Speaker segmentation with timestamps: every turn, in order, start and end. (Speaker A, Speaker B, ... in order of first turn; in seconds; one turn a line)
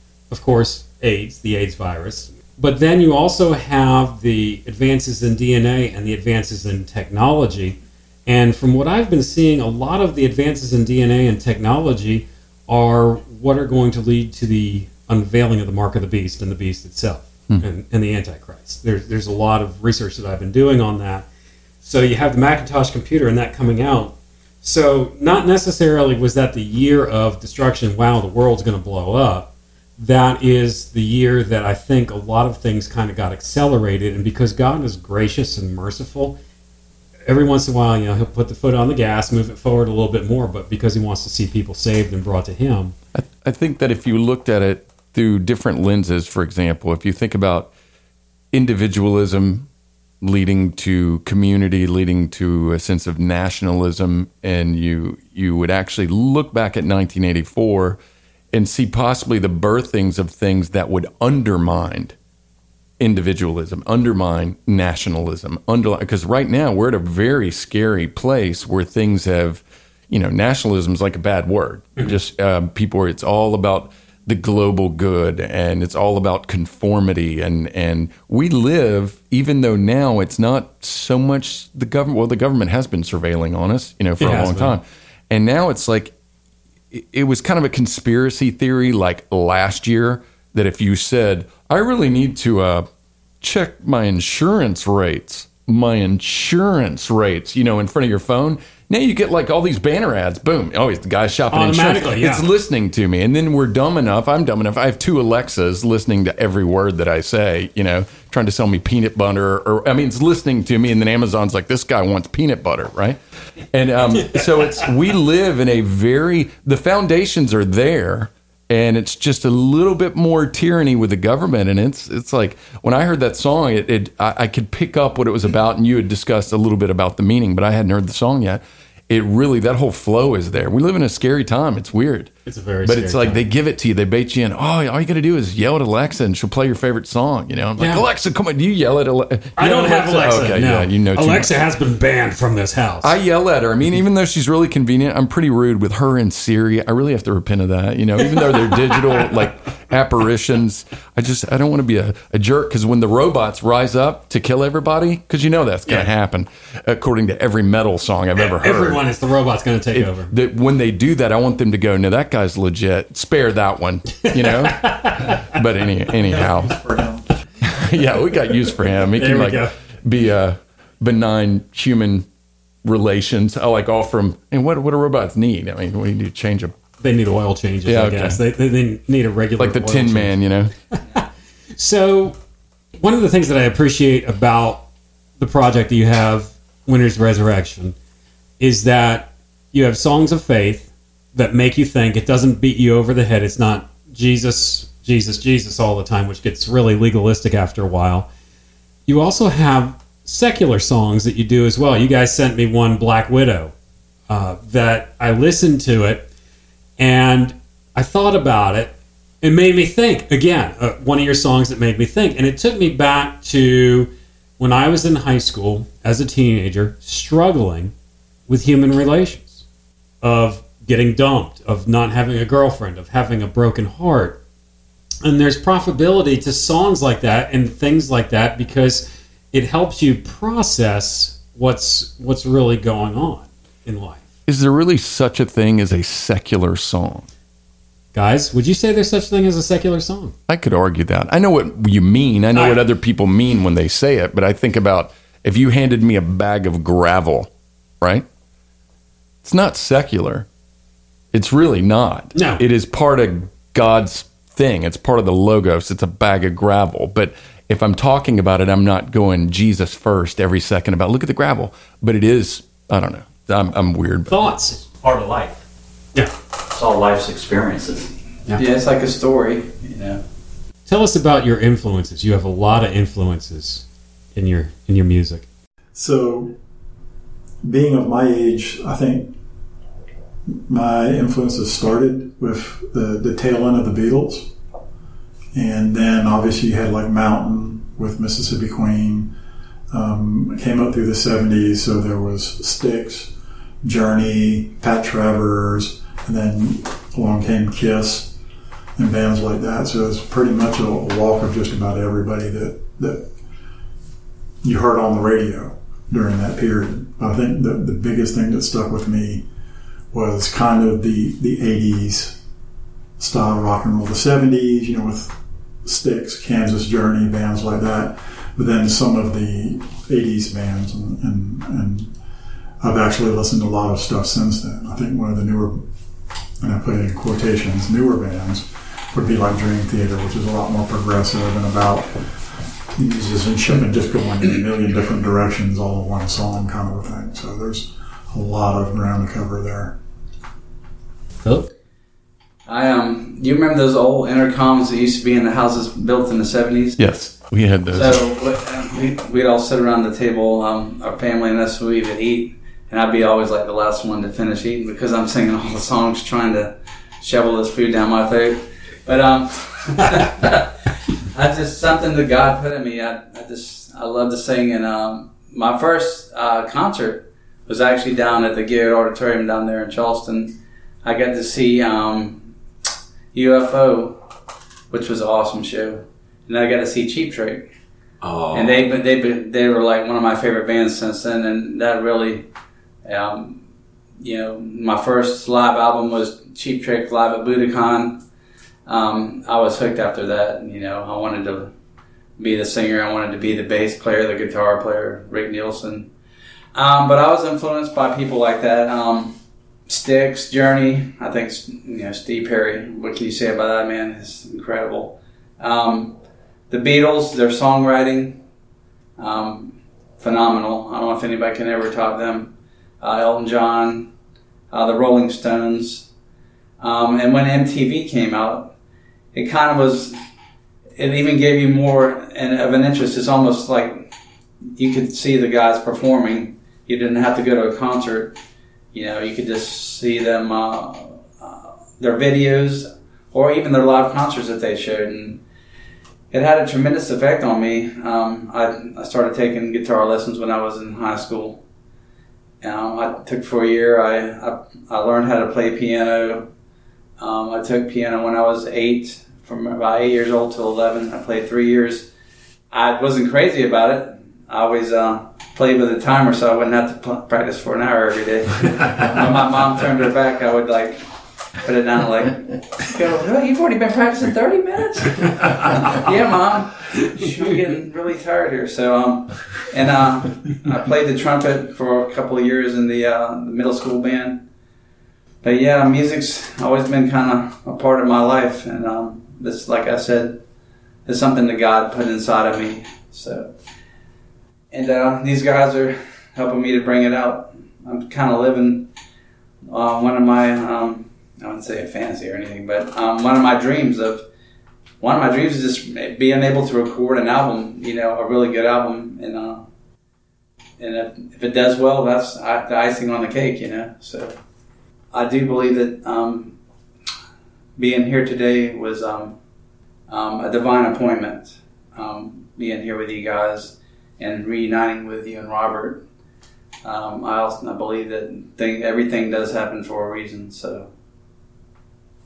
Speaker A: 0.3-21.2
Speaker A: 21.8-36.4
Speaker A: 37.3-42.9
Speaker B: 43.1-47.7
Speaker B: 48.5-49.7
Speaker B: 50.2-58.0
Speaker B: 58.5-62.1
Speaker B: 63.0-86.1
Speaker A: 84.2-84.8
Speaker B: 86.9-92.9
Speaker B: 93.4-113.2
Speaker A: 101.5-102.5
Speaker B: 113.7-132.3
Speaker A: 132.4-133.5
Speaker B: 132.8-141.5
Speaker A: 137.8-138.0
Speaker A: 139.6-143.1
Speaker B: 143.0-159.0
Speaker A: 148.7-148.9
Speaker A: 158.4-160.3
Speaker B: 159.9-166.8
Speaker A: 164.2-165.4
Speaker C: 166.2-167.2
Speaker B: 167.6-172.3
Speaker A: 169.1-169.7
Speaker B: 172.8-176.8
Speaker A: 177.0-180.4
Speaker B: 177.8-178.4
Speaker B: 179.6-180.7
Speaker A: 180.9-181.2
Speaker A: 181.8-182.4
Speaker A: 183.0-184.9
Speaker A: 185.4-187.9
Speaker A: 188.6-198.3
Speaker A: 199.1-203.7
Speaker A: 204.3-206.3
Speaker A: 207.0-217.9
Speaker A: 218.5-219.6
Speaker A: 220.2-224.4
Speaker A: 225.2-234.2
Speaker B: 234.4-237.3
Speaker A: 238.1-240.3
Speaker B: 240.5-247.5
Speaker A: 242.5-242.8
Speaker B: 248.0-248.2
Speaker B: 249.4-250.5
Speaker B: 251.3-264.4
Speaker A: 252.3-252.6
Speaker A: 264.3-264.8
Speaker D: 264.8-265.6
Speaker D: 266.7-268.1
Speaker E: 268.6-270.2
Speaker A: 270.9-275.4
Speaker C: 275.9-276.6
Speaker C: 277.6-279.3
Speaker C: 280.7-284.5
Speaker C: 285.5-289.3
Speaker C: 289.9-293.3
Speaker C: 293.8-298.3
Speaker C: 299.0-303.3
Speaker C: 304.6-309.4
Speaker C: 310.1-312.4
Speaker C: 313.2-322.1
Speaker C: 322.8-325.8
Speaker C: 326.6-332.1
Speaker C: 332.9-339.9
Speaker A: 341.4-341.7
Speaker E: 342.7-347.0
Speaker B: 347.0-348.2
Speaker E: 347.9-360.7
Speaker E: 361.3-372.5
Speaker E: 373.3-374.2
Speaker E: 374.9-377.7
Speaker E: 378.5-382.5
Speaker E: 383.0-383.6
Speaker E: 384.2-388.2
Speaker E: 388.9-391.7
Speaker E: 392.4-396.1
Speaker E: 396.7-399.4
Speaker E: 399.9-406.2
Speaker E: 406.7-408.4
Speaker E: 409.2-414.1
Speaker E: 414.7-416.1
Speaker E: 416.8-418.7
Speaker E: 419.3-420.2
Speaker E: 420.9-424.1
Speaker E: 424.7-428.4
Speaker E: 428.9-435.4
Speaker E: 436.3-441.6
Speaker E: 442.6-446.5
Speaker E: 447.2-452.1
Speaker E: 452.7-461.0
Speaker E: 461.6-474.4
Speaker E: 475.4-480.4
Speaker E: 481.1-483.5
Speaker E: 484.7-488.9
Speaker E: 489.7-494.2
Speaker E: 495.0-499.6
Speaker E: 500.8-504.4
Speaker E: 505.1-506.6
Speaker E: 507.8-509.4
Speaker E: 510.1-516.0
Speaker E: 516.8-520.9